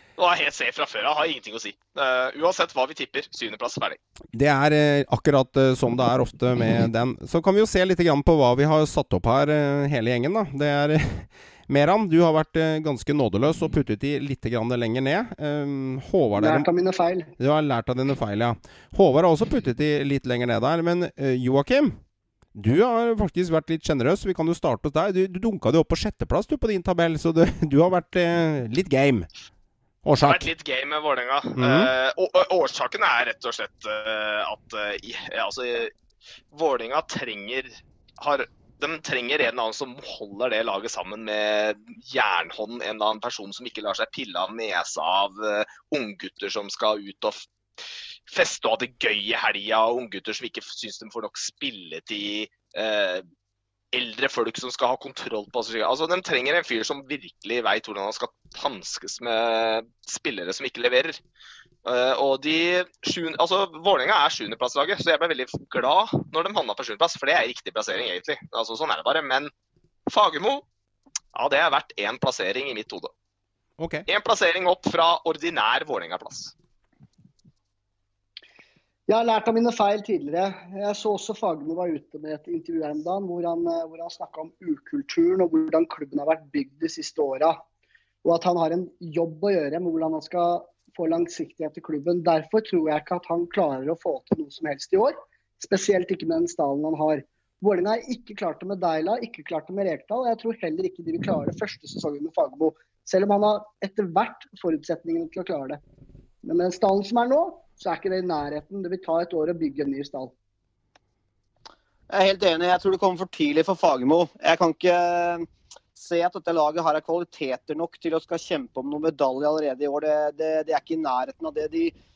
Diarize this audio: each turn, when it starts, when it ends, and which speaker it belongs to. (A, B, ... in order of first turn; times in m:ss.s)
0:00.2-0:04.0 A
0:04.3-0:16.7 B
0:16.4-0:17.3 C
0:17.4-0:22.0 B
0:22.6-0:29.3 B
0:30.0-0:30.5 B
0:30.2-0:35.9 A
0:31.6-0:31.9 B
0:36.5-0:47.5 A
0:48.3-0:53.2 A
0:53.9-1:01.2 A
1:01.8-1:09.5 A
1:10.1-1:10.6 A
1:11.3-1:13.1 A
1:13.8-1:14.1 B
1:14.1-1:16.5 A
1:19.1-1:27.6 C
1:28.2-1:45.8 C
1:46.4-1:50.3 C
1:52.1-2:01.9 D